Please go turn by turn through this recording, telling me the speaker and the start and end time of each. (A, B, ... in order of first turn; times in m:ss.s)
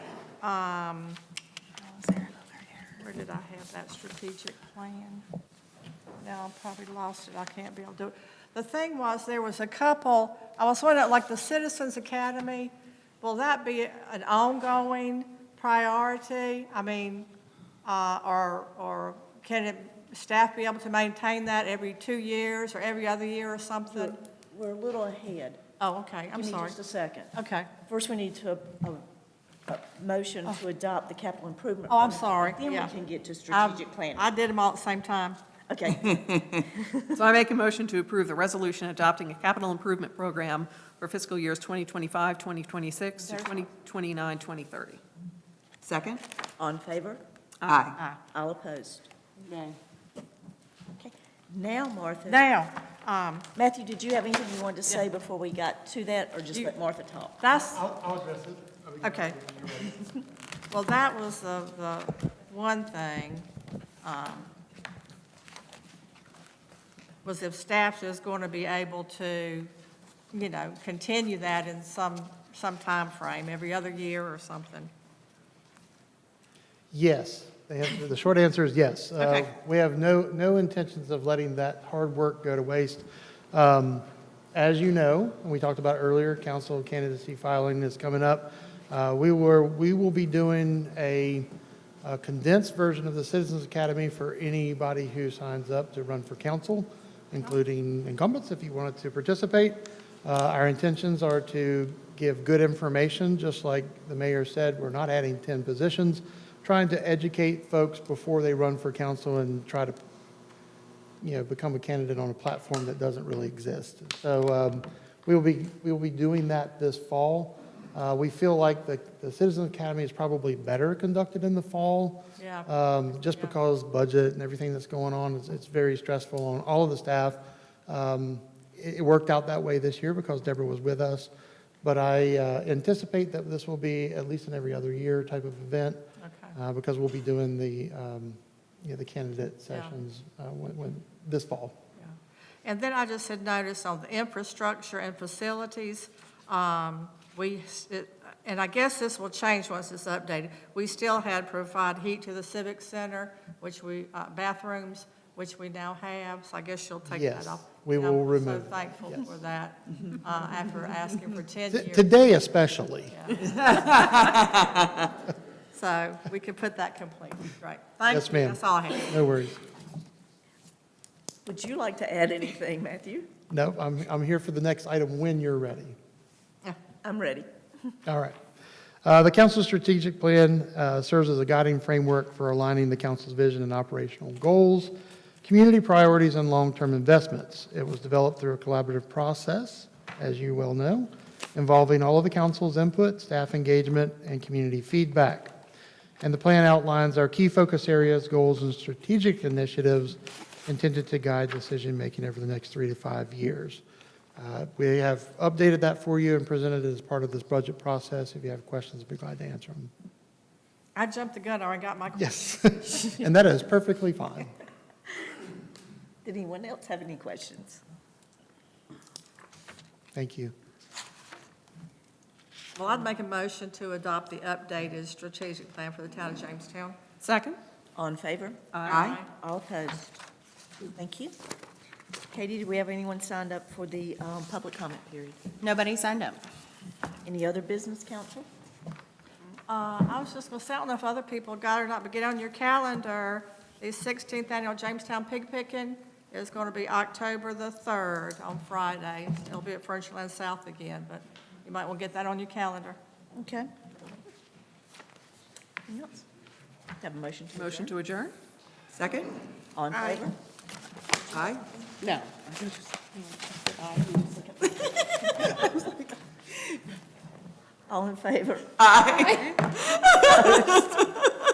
0:00.4-0:01.2 A
0:02.0-0:05.2 A
0:06.2-0:17.3 A
0:17.8-0:24.2 A
0:23.9-0:25.6 B
0:25.8-0:26.8 A
0:26.3-0:27.3 B
0:27.3-0:27.7 A
0:27.8-0:29.0 B
0:29.7-0:34.3 B
0:31.9-0:32.9 A
0:33.5-0:35.4 A
0:35.7-0:37.1 B
0:37.1-0:45.0 C
0:43.2-0:43.6 B
0:45.8-0:46.2 D
0:46.6-0:47.2 B
0:47.6-0:47.9 C
0:47.6-0:48.0 D
0:48.2-0:49.1 B
0:49.5-0:49.7 C
0:51.0-0:52.4 B
0:52.2-0:53.5 A
0:53.5-0:57.4 B
0:57.4-0:57.8 A
0:57.5-1:00.2 E
0:59.0-0:59.4 A
1:00.7-1:03.5 A
1:04.0-1:04.5 A
1:07.2-1:09.7 A
1:10.3-1:14.9 A
1:16.9-1:31.5 E
1:32.0-1:50.0 E
1:51.2-2:11.3 E
2:02.4-2:02.7 A
2:11.8-2:16.0 E
2:16.2-2:16.6 A
2:16.5-2:21.8 E
2:22.0-2:42.1 A
2:37.1-2:39.2 E
2:41.7-2:43.9 E
2:43.1-2:43.6 A
2:45.7-2:49.2 A
2:48.1-2:49.6 E
2:51.4-2:53.3 B
2:53.5-2:56.0 E
2:57.0-2:57.5 B
2:58.0-2:58.4 E
2:59.0-3:15.5 E
3:16.2-3:23.8 E
3:24.4-3:29.9 E
3:30.9-3:32.6 A
3:32.2-3:34.5 E
3:36.2-3:37.8 B
3:40.1-3:40.5 E
3:42.8-3:47.0 A
3:47.2-3:47.6 C
3:47.9-3:50.2 B
3:48.7-3:49.1 C
3:48.8-3:49.3 A
3:48.9-3:49.2 D
3:50.9-3:51.3 B
3:52.3-3:55.4 B
3:55.6-3:56.4 C
3:57.2-3:58.5 B
3:59.7-4:13.0 A
4:13.3-4:13.7 B
4:15.9-4:16.2 B
4:17.0-4:17.9 B
4:17.5-4:18.3 C
4:18.9-4:19.3 D
4:19.7-4:20.3 B
4:21.3-4:21.6 D
4:22.0-4:24.1 C
4:24.1-4:25.9 B
4:27.9-4:29.4 B
4:28.8-4:29.4 D
4:29.2-4:29.5 C
4:30.2-4:31.0 B